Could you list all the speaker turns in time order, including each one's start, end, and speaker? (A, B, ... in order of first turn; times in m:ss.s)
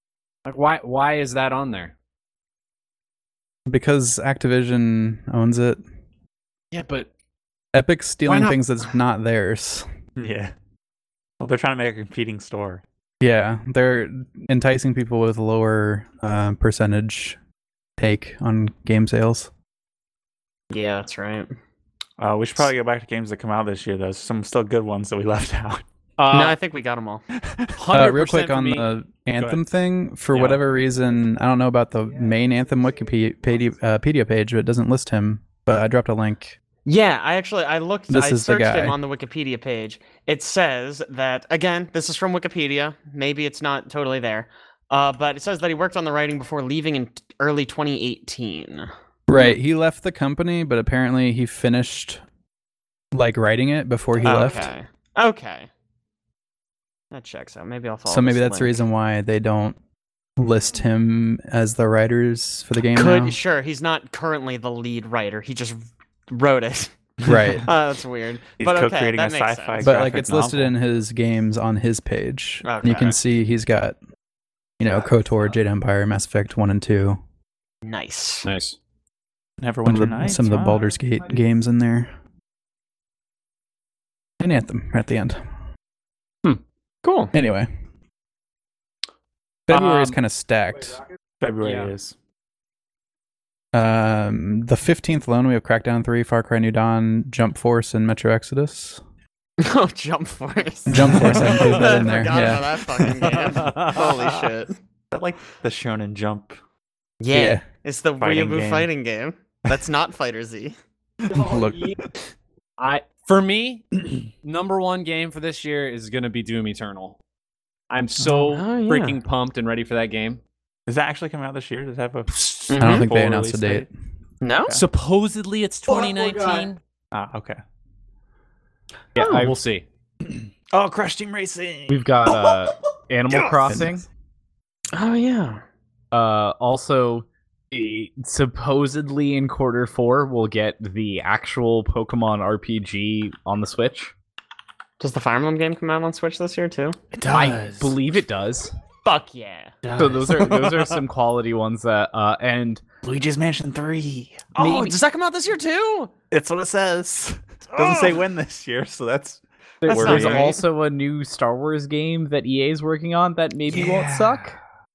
0:00.4-0:01.9 A
0:03.7-0:05.8 B
0:06.7-0:07.1 A
0:07.7-0:09.9 B
0:08.3-0:08.6 A
0:10.2-0:10.5 C
0:11.4-0:12.8 C
0:13.2-0:17.4 B
0:18.0-0:19.5 B
0:20.7-0:21.5 D
0:22.2-0:25.8 C
0:26.2-0:26.6 A
0:26.3-0:27.2 D
0:27.4-0:27.7 C
0:27.8-0:29.6 A
0:27.9-0:36.6 B
0:30.3-0:30.6 A
0:36.8-0:48.9 D
0:38.1-0:39.0 B
0:49.3-0:52.2 B
0:53.1-0:54.7 B
0:54.2-0:55.7 D
0:57.1-0:58.8 D
0:58.1-0:59.8 B
1:00.4-1:03.4 B
1:02.9-1:06.9 D
1:07.2-1:07.6 C
1:07.2-1:07.7 B
1:07.6-1:10.2 D
1:08.6-1:10.7 C
1:09.8-1:14.0 B
1:12.6-1:13.2 D
1:14.8-1:17.2 B
1:17.8-1:18.5 D
1:18.4-1:18.8 A
1:19.6-1:20.8 C
1:19.8-1:22.1 B
1:24.4-1:25.4 B
1:27.0-1:27.3 D
1:27.3-1:27.7 B
1:29.7-1:31.0 B
1:29.7-1:30.2 A
1:31.4-1:32.2 C
1:31.6-1:31.9 A
1:33.7-1:39.0 B
1:39.6-1:44.8 D
1:40.9-1:43.1 B
1:41.2-1:41.5 C
1:41.3-1:42.0 A
1:43.3-1:44.2 A
1:45.1-1:46.6 C
1:47.2-1:50.8 D
1:47.3-1:47.6 B
1:48.2-1:48.9 C
1:51.3-1:51.9 B
1:52.8-1:57.2 A
1:57.9-2:00.4 A
1:58.2-1:58.5 C
1:58.5-1:59.2 D
2:00.9-2:03.9 C
2:02.3-2:02.6 A
2:02.7-2:03.1 D
2:02.8-2:03.9 B
2:04.4-2:04.8 D
2:04.7-2:06.8 A
2:07.1-2:07.6 C
2:09.2-2:09.6 E
2:09.2-2:09.5 D
2:09.2-2:09.8 A
2:10.2-2:12.5 C
2:11.9-2:14.0 E
2:13.4-2:13.7 C
2:14.9-2:15.6 D
2:16.1-2:24.1 E
2:25.0-2:27.0 D
2:27.1-2:28.0 C
2:27.3-2:28.7 E
2:29.0-2:29.9 D
2:29.8-2:30.8 C
2:30.0-2:32.8 E
2:33.0-2:34.8 C
2:34.6-2:36.1 D
2:34.6-2:34.9 E
2:36.3-2:40.5 C
2:37.8-2:38.1 D
2:39.8-2:44.6 E
2:39.8-2:40.6 D
2:43.7-2:44.5 C